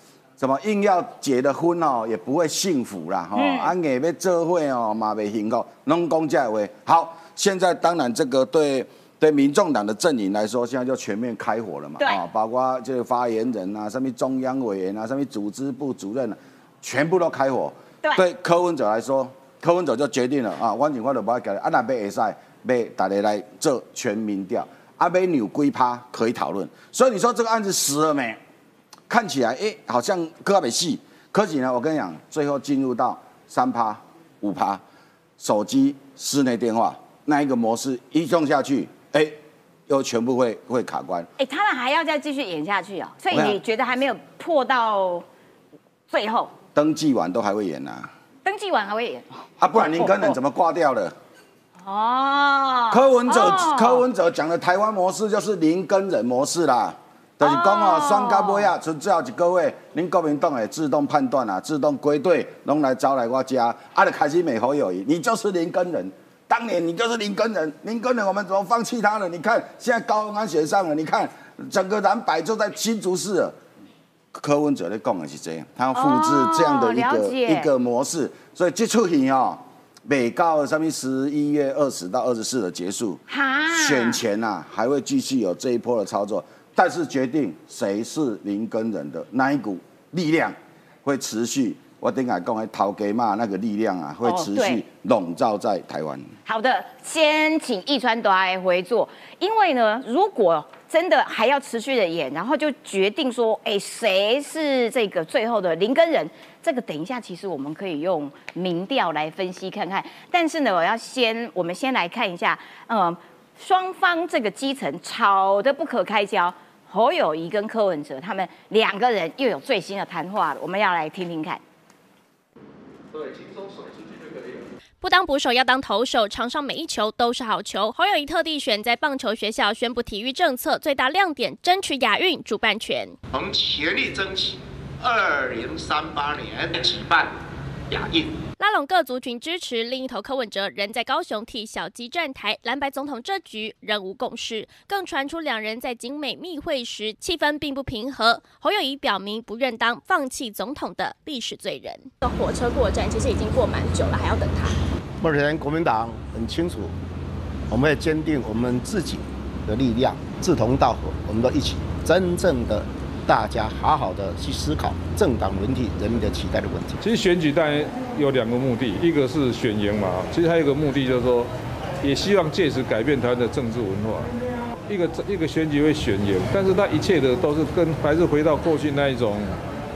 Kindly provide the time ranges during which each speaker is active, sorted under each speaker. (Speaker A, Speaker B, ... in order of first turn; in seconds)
Speaker A: 0.4-28.4, 29.1-34.8, 35.4-39.4, 39.9-41.3, 43.3-43.6, 46.7-48.1, 49.6-51.1, 52.9-73.5, 74.3-96.3
Speaker B: 3.4-3.7, 12.0-12.2, 41.4-45.2, 46.1-46.5, 48.4-50.3, 51.8-54.0, 57.4-58.7, 75.9-77.7, 83.3-84.2, 94.2-94.8, 96.5-121.6
Speaker C: 125.0-133.2, 138.6-152.1
Speaker D: 133.3-137.3, 137.9-138.4
Speaker E: 152.2-154.7
Speaker F: 155.2-156.9, 157.7-167.0
Speaker G: 167.0-171.5, 172.0-174.3, 174.9-179.6